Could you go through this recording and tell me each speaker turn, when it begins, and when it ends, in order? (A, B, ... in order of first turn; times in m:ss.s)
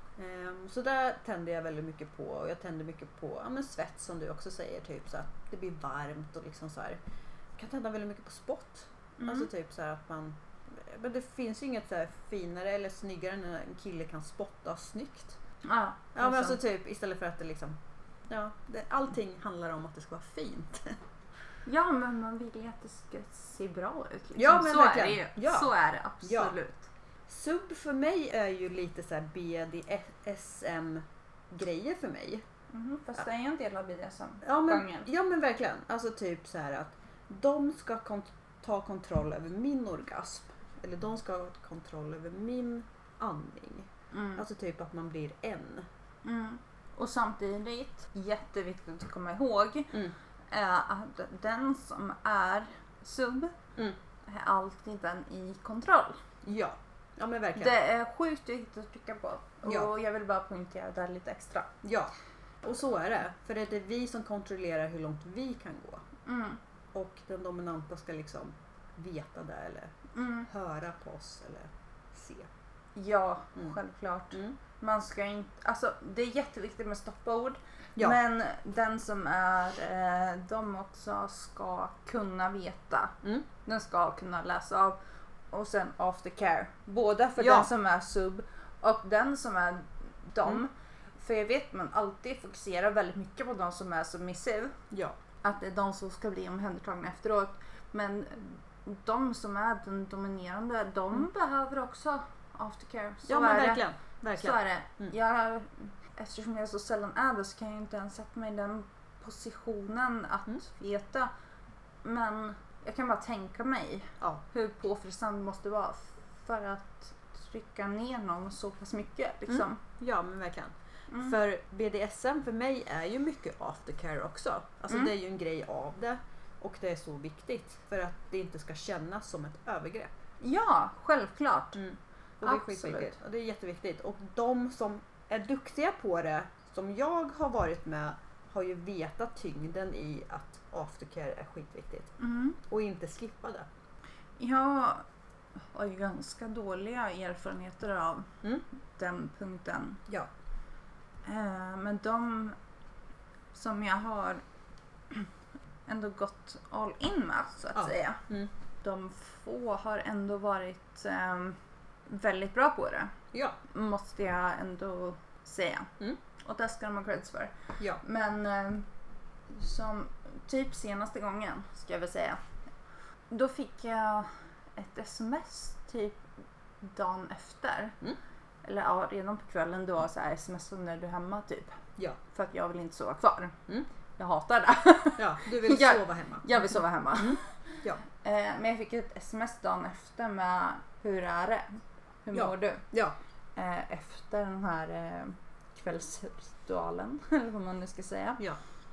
0:00.2-0:07.0 A
0:07.6-0:15.4 A
0:09.2-0:09.5 B
0:15.6-0:16.6 B
0:16.2-0:21.0 A
0:21.7-0:26.9 B
0:24.4-0:25.7 A
0:26.2-0:26.6 A
0:27.3-0:32.4 A
0:32.7-0:35.1 B
0:34.4-0:45.9 A
0:44.1-0:44.4 B
0:46.2-0:50.0 B
0:50.5-0:53.6 B
0:54.3-0:56.2 B
0:56.4-0:57.8 A
0:57.6-1:01.7 B
0:59.7-0:59.9 A
1:01.8-1:06.0 A
1:06.3-1:06.6 B
1:06.9-1:09.9 A
1:10.2-1:10.5 B
1:10.5-1:12.5 A
1:13.0-1:25.0 B
1:25.5-1:34.8 B
1:27.4-1:27.7 A
1:34.9-1:35.2 A
1:35.4-1:43.8 B
1:43.3-1:45.1 A
1:44.4-1:51.3 B
1:52.0-1:59.8 B
1:59.5-2:10.1 A
2:01.1-2:01.4 B
2:10.4-2:11.8 B
2:11.8-2:22.2 A
2:12.4-2:13.2 B
2:22.2-2:22.6 B
2:22.7-2:23.7 A
2:24.4-2:25.0 B
2:25.7-2:28.4 B
2:29.0-2:30.0 B
2:31.2-2:32.6 B
2:33.5-2:34.4 B
2:35.9-2:38.2 B
2:37.8-2:38.5 A
2:38.8-2:43.1 B
2:43.3-2:43.6 A
2:43.7-2:48.9 B
2:49.5-2:52.4 B
2:53.3-2:56.2 B
2:56.8-2:58.0 B
2:58.6-3:01.8 B
3:02.3-3:03.6 B
3:04.2-3:12.8 B
3:05.2-3:06.5 A
3:07.2-3:08.0 A
3:12.3-3:13.2 A
3:13.6-3:18.4 B